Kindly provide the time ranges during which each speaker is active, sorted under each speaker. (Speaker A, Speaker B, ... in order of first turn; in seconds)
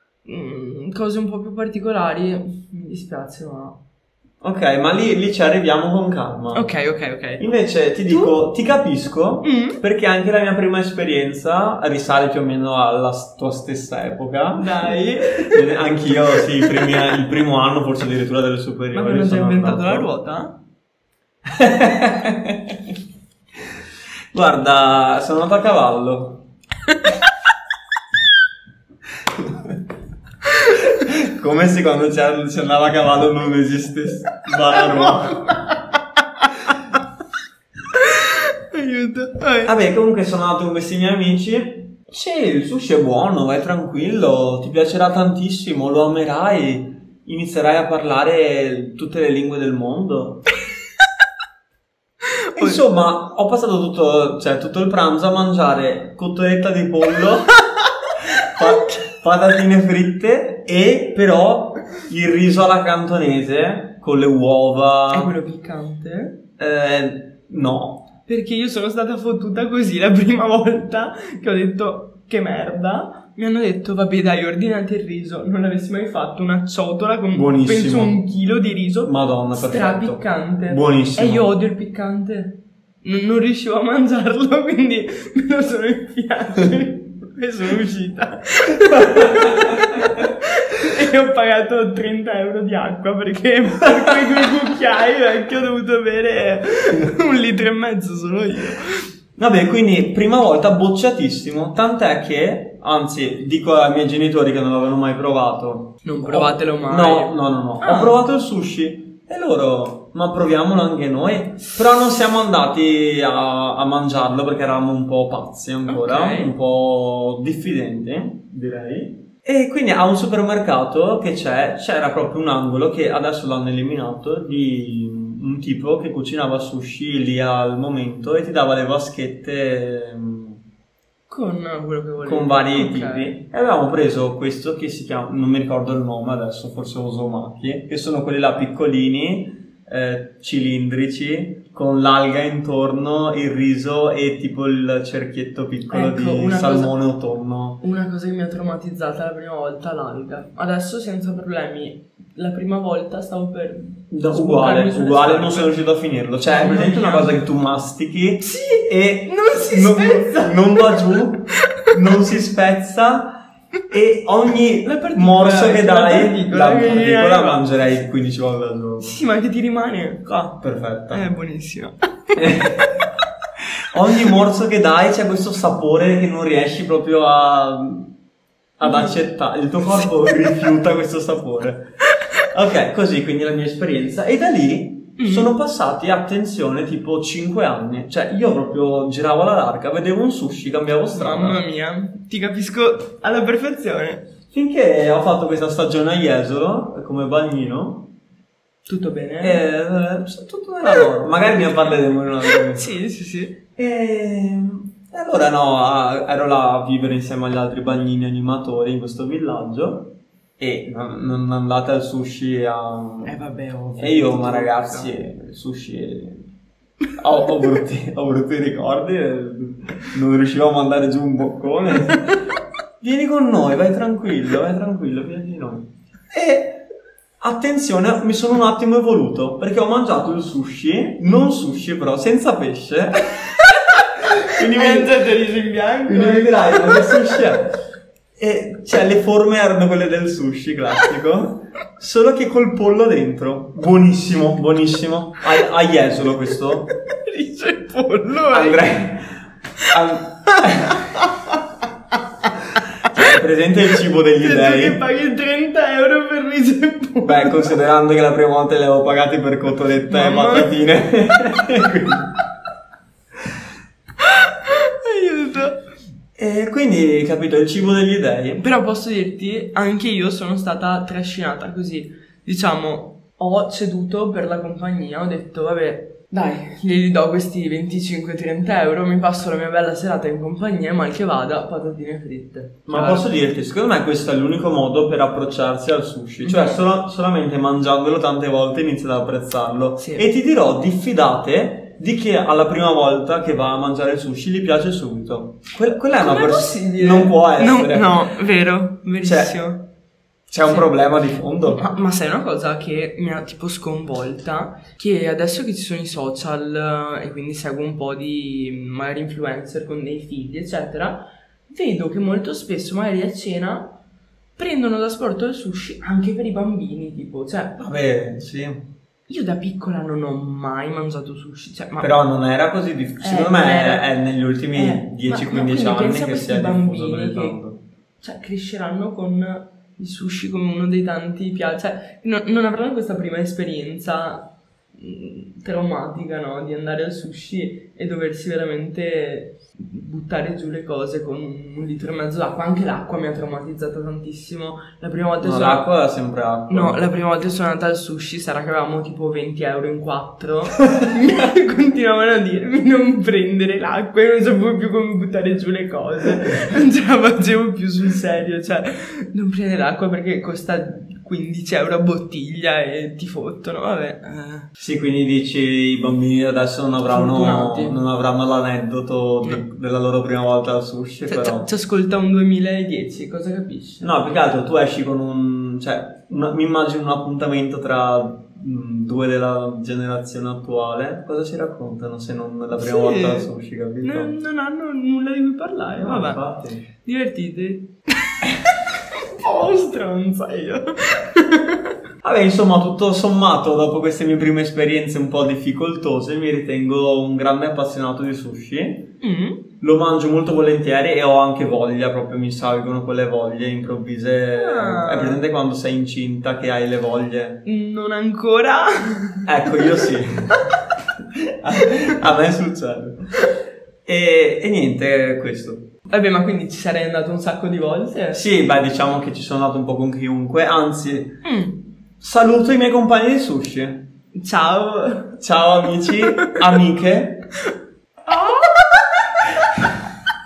Speaker A: 0.2-3.8, 6.5-7.5, 8.1-8.4, 9.4-9.8, 14.6-15.8, 16.3-17.0, 18.9-20.6, 34.7-35.8, 36.4-36.7, 37.9-39.7, 52.5-52.8, 65.1-66.4, 68.3-99.1, 106.0-108.2, 115.9-116.5, 131.3-133.4, 145.9-147.0, 147.8-155.8, 156.5-157.4, 158.4-161.2, 164.8-167.7, 169.0-172.4, 178.8-179.2, 185.2-185.5, 191.1-194.3, 198.9-199.6, 200.9-203.6, 213.2-215.2, 234.2-237.4, 247.1-249.0, 250.8-251.6, 254.4-257.8, 260.1-260.8, 264.2-265.8, 268.6-283.3, 286.4-286.8, 290.0-290.2, 296.2-299.9, 301.7-314.0, 314.6-317.8, 319.3-322.1, 323.2-324.1, 324.8-327.6, 328.2-345.9, 346.7-364.7, 367.1-368.0, 371.3-374.1, 382.7-383.5, 384.0-392.0, 399.2-399.6, 404.6-405.4, 407.6-410.1, 416.1-418.4, 421.4-421.8, 424.3-425.4, 428.3-429.1
Speaker B: 4.4-6.7, 7.4-20.1, 21.5-22.9, 24.3-26.4, 30.8-35.5, 39.6-50.5, 52.6-57.6, 58.4-65.4, 66.6-68.1, 77.3-78.2, 79.0-81.5, 89.2-89.6, 99.4-130.6, 132.2-147.8, 154.1-169.2, 170.6-171.3, 172.3-172.9, 173.9-178.1, 178.8-181.9, 182.4-191.6, 194.5-198.1, 199.4-202.9, 203.8-213.3, 214.0-216.5, 217.2-222.4, 223.0-226.8, 227.4-233.5, 234.3-235.2, 236.1-237.8, 238.4-246.9, 248.5-251.2, 253.1-255.0, 257.2-262.4, 266.4-268.6, 282.9-298.3, 299.2-299.6, 300.5-301.9, 317.8-318.9, 322.0-327.8, 345.4-347.1, 356.4-356.7, 364.8-371.7, 374.0-384.3, 386.0-386.9, 392.2-399.1, 399.8-407.6, 409.5-410.7, 411.5-413.4, 414.1-415.9, 418.3-421.4, 422.2-424.1, 425.4-427.5